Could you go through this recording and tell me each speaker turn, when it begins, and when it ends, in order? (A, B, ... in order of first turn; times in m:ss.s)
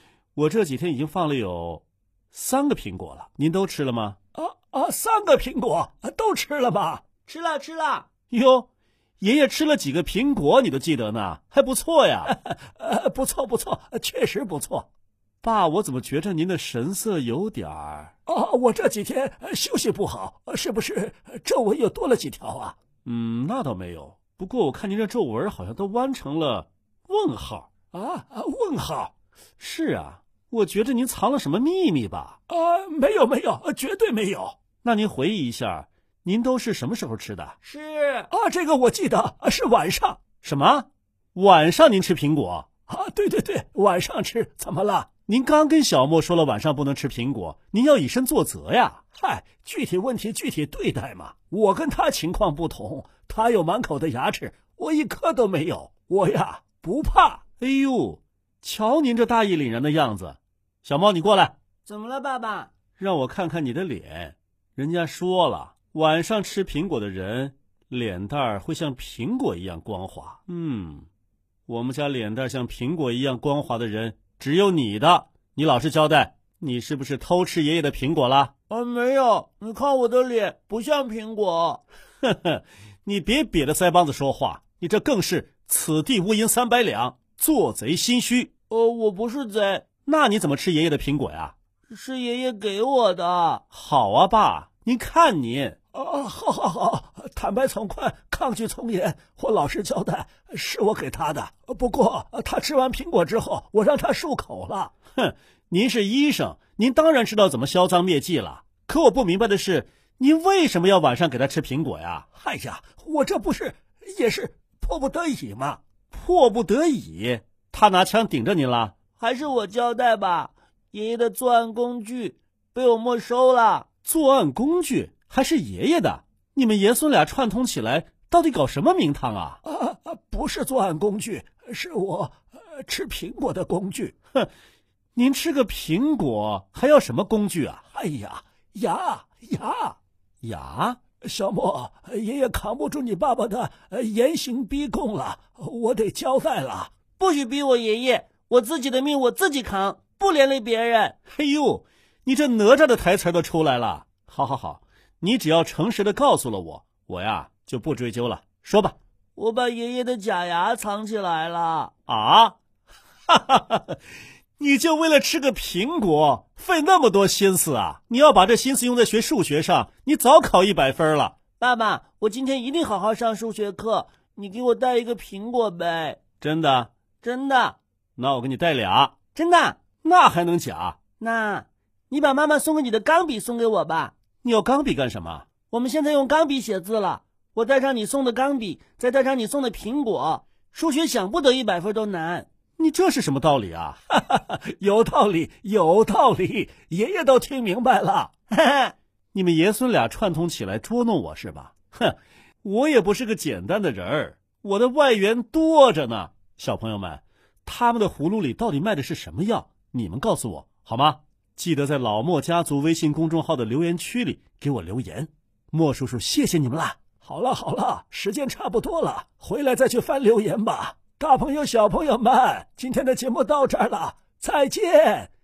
0:00.4-0:07.0 A
0:07.2-0:08.1 B
0:08.3-0:08.7 A
0:09.2-0:14.8 A
0:15.4-0:37.6 A
0:37.6-0:38.3 B
0:38.3-1:01.6 A
1:01.9-1:02.7 B
1:03.0-1:11.1 A
1:11.7-1:18.5 A
1:18.7-1:21.8 B
1:22.2-1:28.5 A
1:28.7-1:29.9 B
1:30.0-1:31.5 A
1:31.9-1:33.6 B
1:33.7-1:59.0 A
1:59.2-2:03.9 B
2:04.0-2:12.3 A
2:12.8-2:14.5 A
2:15.2-2:26.9 A
2:27.1-2:31.2 B
2:31.3-2:39.0 A
2:39.4-2:41.9 B
2:42.1-2:42.6 A
2:43.3-2:44.0 A
2:44.6-2:51.4 A
2:51.6-2:56.2 B
2:56.4-2:56.9 A
2:57.2-2:57.8 B
2:58.2-2:59.2 A
2:59.4-2:59.8 B
3:00.0-3:01.0 A
3:01.2-3:04.1 B
3:04.4-3:05.5 A
3:05.6-3:12.5 B
3:12.8-3:18.3 A
3:18.5-3:18.9 B
3:19.3-3:45.3 A